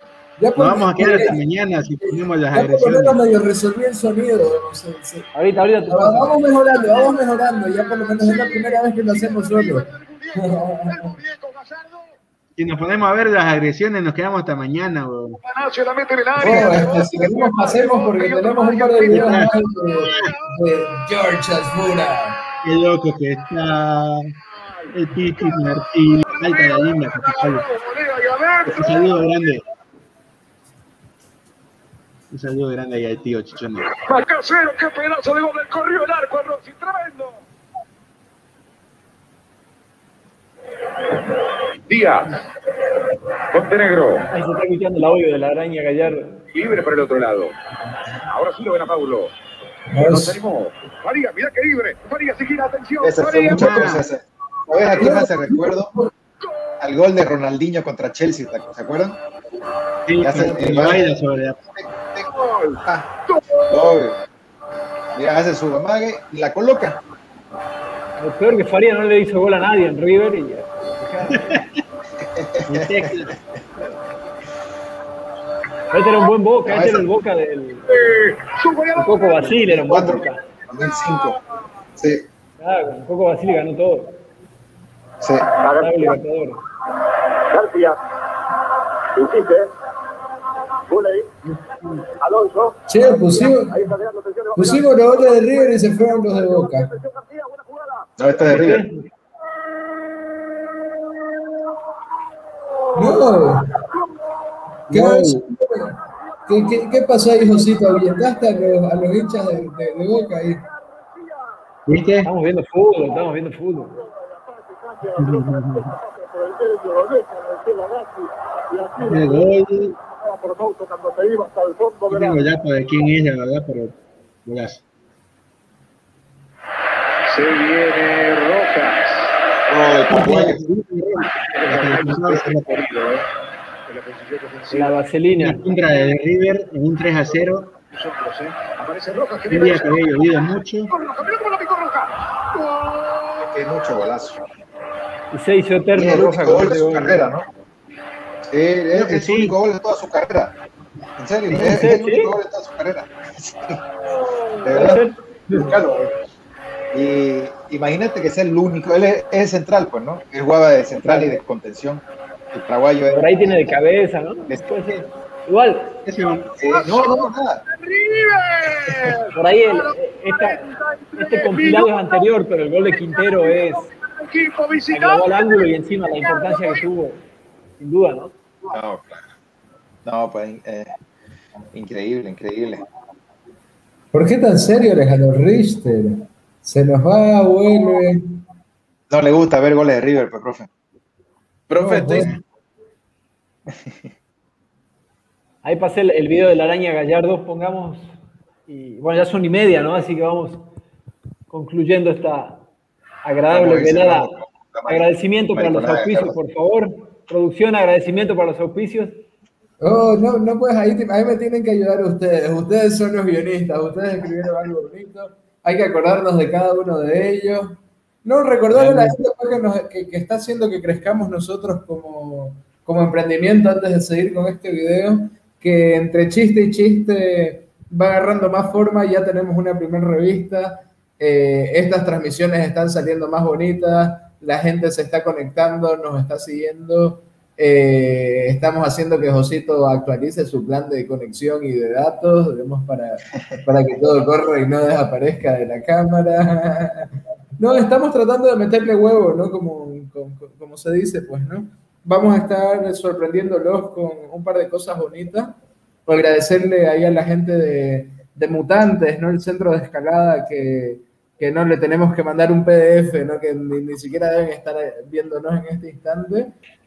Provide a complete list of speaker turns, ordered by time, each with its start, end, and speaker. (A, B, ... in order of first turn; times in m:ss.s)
0:00.4-0:01.4 A
0:00.6-0:03.2 B
0:02.1-0:05.3 A
0:05.3-0:06.4 C
0:05.9-0:09.8 A
0:06.7-0:12.1 D
0:10.4-0:11.2 A
0:12.6-0:15.4 B
0:15.4-0:20.5 D
0:16.4-0:22.4 A
0:19.1-0:19.5 B
0:20.0-0:20.3 B
0:22.6-0:24.3 B
0:24.8-0:29.2 D
0:24.9-0:27.6 B
0:28.7-0:29.6 B
0:32.3-0:33.9 B
0:33.9-0:37.4 D
0:41.9-0:42.4 D
0:43.5-0:44.3 D
0:44.3-0:46.4 C
0:46.5-0:47.5 D
0:48.3-0:49.3 D
0:49.9-0:50.4 A
0:50.0-0:53.9 D
0:53.0-0:55.9 E
0:53.5-0:54.0 B
0:55.0-0:56.1 A
0:56.8-0:59.2 E
1:00.1-1:01.6 B
1:00.2-1:01.1 E
1:01.7-1:02.3 E
1:02.2-1:03.8 D
1:03.7-1:04.2 E
1:05.2-1:07.0 E
1:08.2-1:11.6 C
1:11.4-1:11.8 B
1:12.2-1:12.9 E
1:12.7-1:13.3 B
1:15.9-1:18.0 C
1:16.7-1:17.0 E
1:17.9-1:20.3 D
1:19.0-1:20.4 C
1:19.7-1:21.4 E
1:22.0-1:22.2 E
1:22.6-1:24.2 C
1:25.5-1:26.2 D
1:25.8-1:26.6 C
1:27.5-1:28.0 D
1:29.1-1:29.7 D
1:30.9-1:31.3 D
1:32.1-1:38.6 D
1:32.9-1:33.8 A
1:34.6-1:36.9 A
1:38.2-1:38.9 E
1:38.4-1:39.1 C
1:42.9-1:43.2 D
1:43.0-1:43.7 A
1:43.9-1:44.2 D
1:44.9-1:45.4 B
1:44.9-1:45.9 A
1:46.4-1:47.8 D
1:46.5-1:50.6 A
1:50.8-1:51.4 D
1:51.9-1:52.3 B
1:52.2-1:54.0 C
1:54.0-1:59.5 D
1:55.2-1:55.9 B
1:59.0-2:00.0 B
2:00.0-2:02.5 D
2:02.1-2:04.8 B
2:07.3-2:09.4 D
2:09.7-2:10.6 E
2:10.1-2:12.8 B
2:11.3-2:13.2 D
2:13.9-2:15.0 D
2:14.7-2:15.6 C
2:15.4-2:17.7 B
2:17.9-2:23.4 D
2:19.5-2:20.9 B
2:23.4-2:24.4 E
2:25.3-2:27.3 C
2:26.0-2:27.5 E
2:28.5-2:30.5 E
2:28.9-2:29.6 B
2:31.2-2:33.8 E
2:31.5-2:32.3 C
2:34.6-2:36.1 E
2:34.7-2:35.2 C
2:36.9-2:43.8 E
2:41.1-2:41.3 C
2:43.1-2:46.0 C
2:44.5-2:44.9 E
2:46.0-2:46.5 B
2:46.6-2:47.6 E
2:46.6-2:52.3 D
2:48.9-2:49.2 E
2:49.4-2:53.9 C
2:52.9-2:56.8 D
2:54.9-2:57.2 C
2:57.8-2:58.3 C
2:58.7-2:59.2 E
3:00.0-3:00.9 E
3:01.7-3:02.8 E
3:04.1-3:08.2 A
3:09.1-3:10.7 E
3:11.7-3:12.3 E
3:11.8-3:12.3 A
3:13.7-3:14.0 E
3:15.6-3:18.2 C
3:18.7-3:20.6 C
3:21.5-3:22.6 C
3:23.2-3:24.3 C
3:23.5-3:26.4 E
3:24.9-3:29.2 C
3:29.8-4:15.6 A
3:38.7-3:39.0 B
4:16.1-4:26.5 A